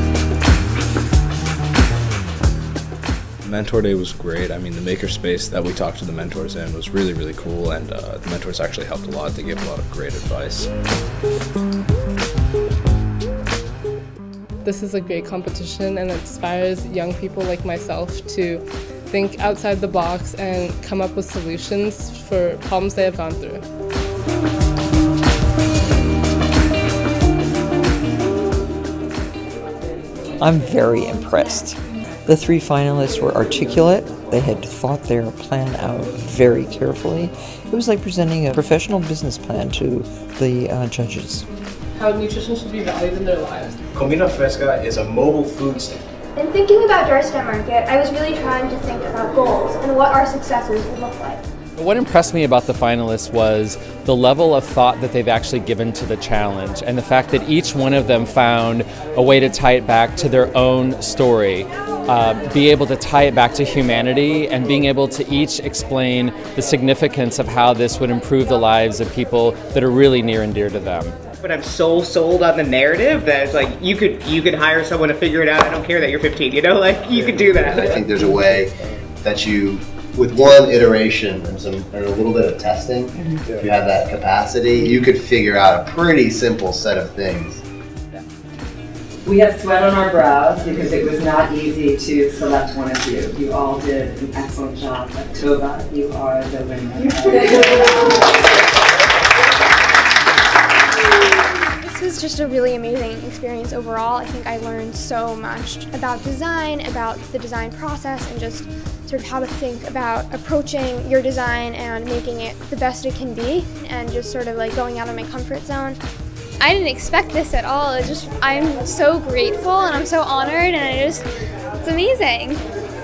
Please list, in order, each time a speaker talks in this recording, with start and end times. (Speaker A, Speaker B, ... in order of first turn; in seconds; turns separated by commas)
Speaker A: 3.4-10.7, Speaker B: 14.6-23.6, Speaker C: 30.4-41.5, Speaker B: 42.0-43.8, Speaker D: 43.9-46.0, Speaker E: 46.4-51.4, Speaker F: 51.8-71.2, Speaker G: 71.4-77.9, Speaker H: 77.6-87.6, Speaker I: 89.2-98.1, Speaker E: 101.8-116.0, Speaker E: 116.6-121.2, Speaker E: 121.8-122.6